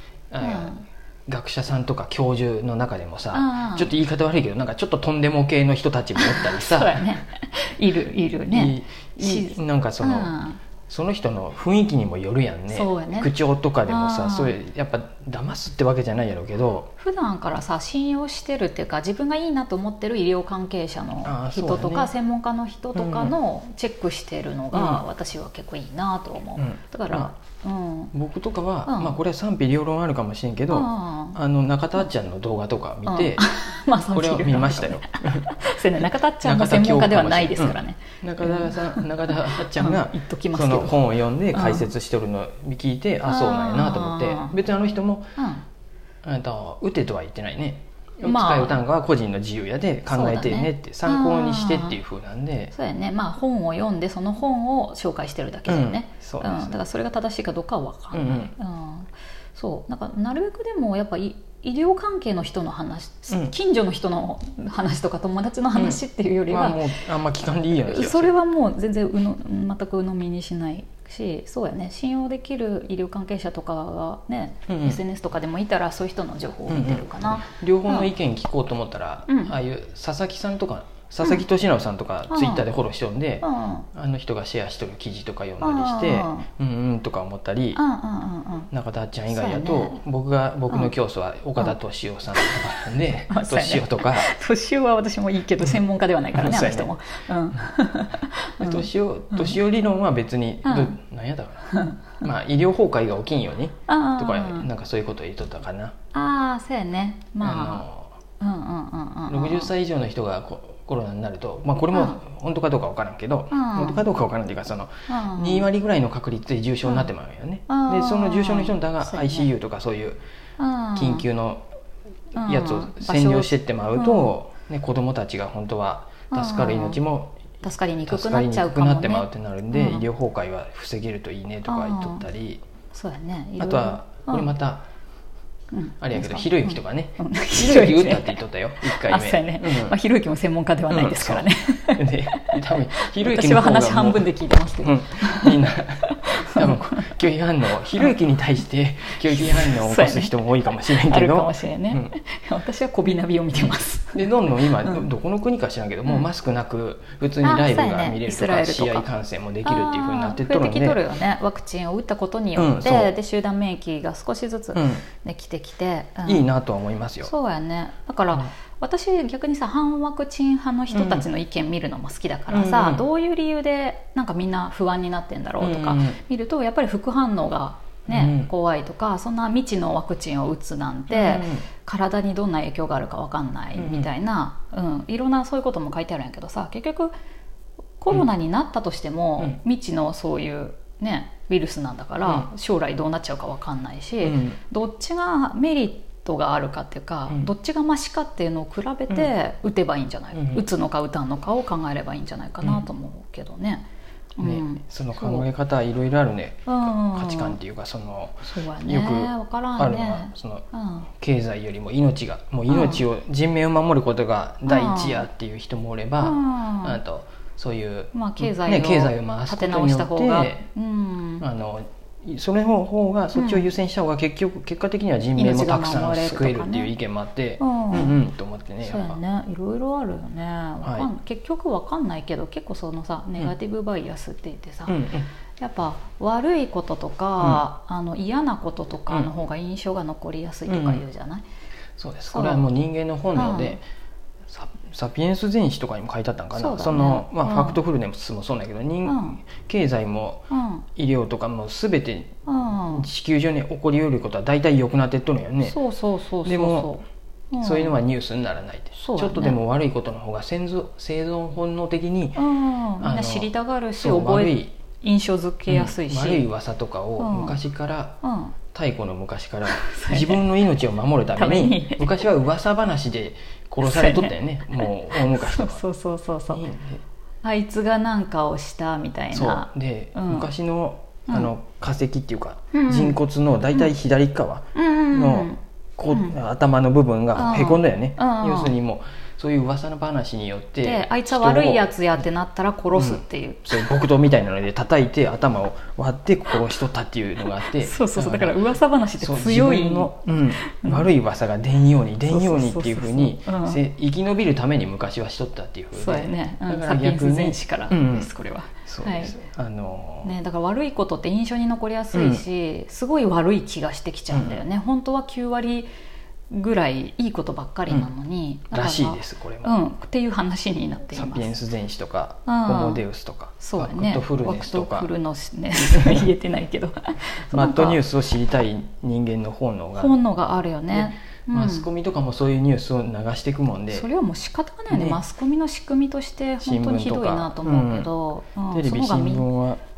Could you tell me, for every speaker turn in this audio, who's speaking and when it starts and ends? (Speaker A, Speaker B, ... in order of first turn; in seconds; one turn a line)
Speaker A: 0.3-7.1
Speaker B: 0.4-0.8
Speaker B: 3.3-3.9
Speaker B: 6.2-10.6
Speaker A: 8.5-10.3
Speaker A: 10.9-16.9
Speaker B: 12.7-13.3
Speaker B: 13.9-14.5
Speaker B: 17.0-28.1
Speaker A: 21.2-22.1
Speaker A: 22.9-23.3
Speaker A: 24.7-25.0
Speaker A: 26.6-27.3
Speaker A: 28.1-33.4
Speaker B: 28.9-29.1
Speaker B: 30.7-31.4
Speaker B: 33.1-41.9
Speaker A: 34.1-35.6
Speaker A: 36.4-45.4
Speaker B: 43.2-44.5
Speaker B: 45.4-45.6
Speaker A: 46.2-52.7
Speaker B: 48.2-48.8
Speaker B: 50.1-52.0
Speaker B: 52.7-66.8
Speaker A: 55.7-56.8
Speaker A: 58.1-58.5
Speaker A: 63.3-63.5
Speaker A: 65.7-68.3
Speaker B: 67.8-78.1
Speaker A: 74.7-75.0
Speaker A: 76.7-87.8
Speaker B: 79.3-79.5
Speaker B: 82.3-82.7
Speaker B: 83.4-83.9
Speaker B: 85.6-86.5
Speaker B: 87.7-88.7
Speaker A: 88.7-94.3
Speaker B: 89.3-90.0
Speaker B: 92.4-99.6
Speaker A: 96.3-96.9
Speaker A: 98.6-105.9
Speaker B: 100.6-100.9
Speaker B: 101.7-102.0
Speaker B: 103.9-104.7
Speaker B: 106.1-107.8
Speaker A: 107.4-108.2
Speaker B: 108.4-109.7
Speaker A: 109.3-120.2
Speaker B: 111.9-112.2
Speaker B: 113.5-114.0
Speaker B: 115.1-115.7
Speaker B: 117.7-119.5
Speaker B: 120.6-121.2
Speaker A: 120.9-121.6
Speaker A: 122.3-127.4
Speaker B: 122.3-124.3
Speaker B: 126.3-127.0
Speaker B: 127.6-130.1
Speaker A: 128.1-132.6
Speaker B: 131.7-132.2
Speaker B: 132.9-134.5
Speaker A: 133.6-134.9
Speaker B: 135.7-147.2
Speaker A: 136.0-139.9
Speaker A: 140.9-144.3
Speaker A: 144.8-152.1
Speaker B: 149.3-154.2
Speaker A: 153.6-161.0
Speaker B: 157.4-159.1
Speaker B: 159.6-166.5
Speaker A: 162.6-163.1
Speaker A: 164.7-165.1
Speaker A: 166.2-167.3
Speaker B: 167.2-187.1
Speaker A: 170.9-171.2
Speaker A: 172.5-173.0
Speaker A: 175.6-176.2
Speaker A: 178.1-178.5
Speaker A: 181.1-181.7
Speaker A: 183.8-184.1
Speaker B: 188.0-203.8
Speaker A: 194.2-194.6
Speaker A: 200.3-200.6
Speaker B: 204.4-205.4
Speaker A: 204.4-220.7
Speaker B: 206.7-207.6
Speaker B: 208.4-211.1
Speaker B: 212.7-213.0
Speaker B: 214.7-215.3
Speaker B: 216.2-217.0
Speaker B: 218.1-221.4
Speaker A: 221.4-229.2
Speaker B: 223.3-223.7
Speaker B: 225.3-226.9
Speaker B: 227.6-228.2
Speaker B: 228.8-235.0
Speaker A: 230.8-231.1
Speaker A: 234.9-235.3
Speaker B: 235.6-241.4
Speaker A: 240.7-241.0
Speaker A: 242.0-243.8
Speaker B: 242.3-242.7
Speaker B: 243.3-243.8
Speaker A: 244.5-252.3
Speaker B: 246.6-247.8
Speaker B: 249.1-249.4
Speaker B: 250.5-250.8
Speaker B: 252.5-253.1
Speaker A: 252.9-255.8
Speaker B: 255.6-258.0
Speaker A: 256.4-257.0
Speaker A: 257.6-262.4
Speaker B: 258.9-259.6
Speaker B: 262.4-266.5
Speaker A: 263.0-264.7
Speaker A: 265.7-268.2
Speaker B: 267.2-267.6
Speaker B: 268.2-268.5
Speaker A: 268.7-275.8
Speaker B: 269.7-270.4
Speaker B: 271.4-272.2
Speaker B: 273.8-276.6
Speaker A: 276.5-277.0
Speaker B: 277.4-280.5
Speaker A: 279.3-291.8
Speaker B: 282.7-283.2
Speaker B: 284.7-285.6
Speaker B: 287.3-288.7
Speaker B: 290.8-293.9
Speaker A: 292.9-298.6
Speaker B: 297.6-301.1
Speaker A: 299.2-308.3
Speaker B: 302.2-303.8
Speaker B: 305.9-309.4
Speaker A: 308.8-310.3
Speaker B: 310.2-315.9
Speaker A: 312.1-312.4
Speaker A: 314.3-314.6
Speaker B: 316.5-321.6
Speaker A: 318.7-319.7
Speaker A: 321.1-325.1
Speaker B: 322.4-323.0
Speaker B: 323.6-328.0
Speaker A: 325.8-326.2
Speaker A: 327.5-330.1
Speaker B: 330.0-331.9
Speaker A: 330.9-334.1
Speaker B: 333.9-339.4
Speaker A: 334.9-335.2
Speaker A: 336.6-338.1
Speaker A: 338.7-339.8